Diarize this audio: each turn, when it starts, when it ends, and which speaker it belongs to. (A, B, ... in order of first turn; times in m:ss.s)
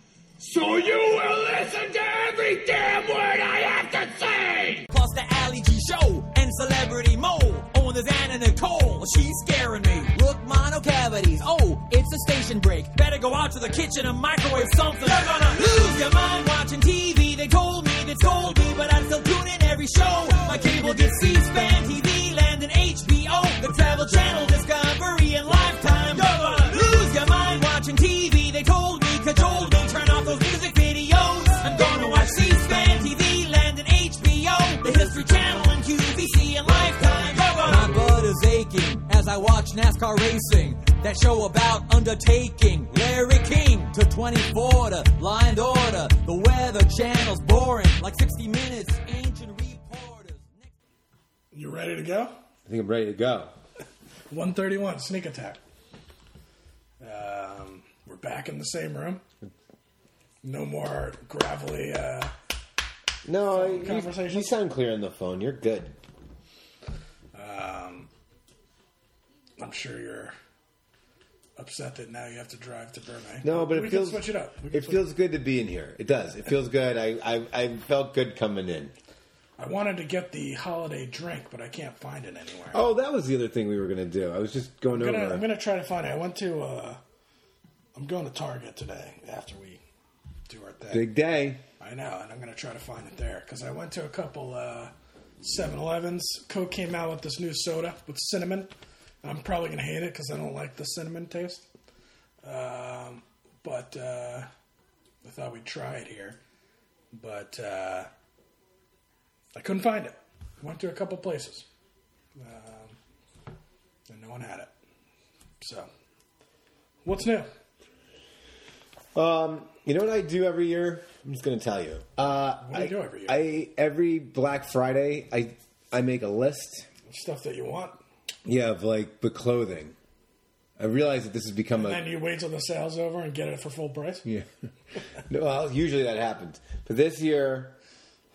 0:00.4-0:04.9 A
0:04.9-0:50.7 B
0:51.5-0:52.4 C
0:52.6-0:53.5 D
0:54.3-0:55.6 C
0:57.0-0:59.2 C
1:00.4-1:02.3 C
1:03.2-1:06.0 D
1:03.5-1:04.5 C
1:07.3-1:08.1 C
1:09.6-1:10.3 C
1:11.6-1:15.0 C
1:13.4-1:18.9 D
1:19.6-1:22.8 C
1:22.7-1:25.4 D
1:24.9-1:27.0 C
1:27.9-1:29.8 C
1:30.5-1:31.0 C
1:30.9-1:31.6 D
1:31.8-1:38.7 C
1:39.2-1:41.6 C
1:42.4-1:44.5 C
1:45.2-1:46.4 C
1:47.1-1:48.1 C
1:49.5-1:51.6 C
1:52.4-1:53.0 C
1:54.1-1:54.7 C
1:55.6-1:55.9 C
1:57.0-1:57.5 C
1:59.1-2:06.9 D
2:02.6-2:03.4 C
2:07.1-2:08.0 C
2:08.4-2:10.0 D
2:10.8-2:12.0 D
2:11.7-2:14.3 C
2:15.2-2:17.8 D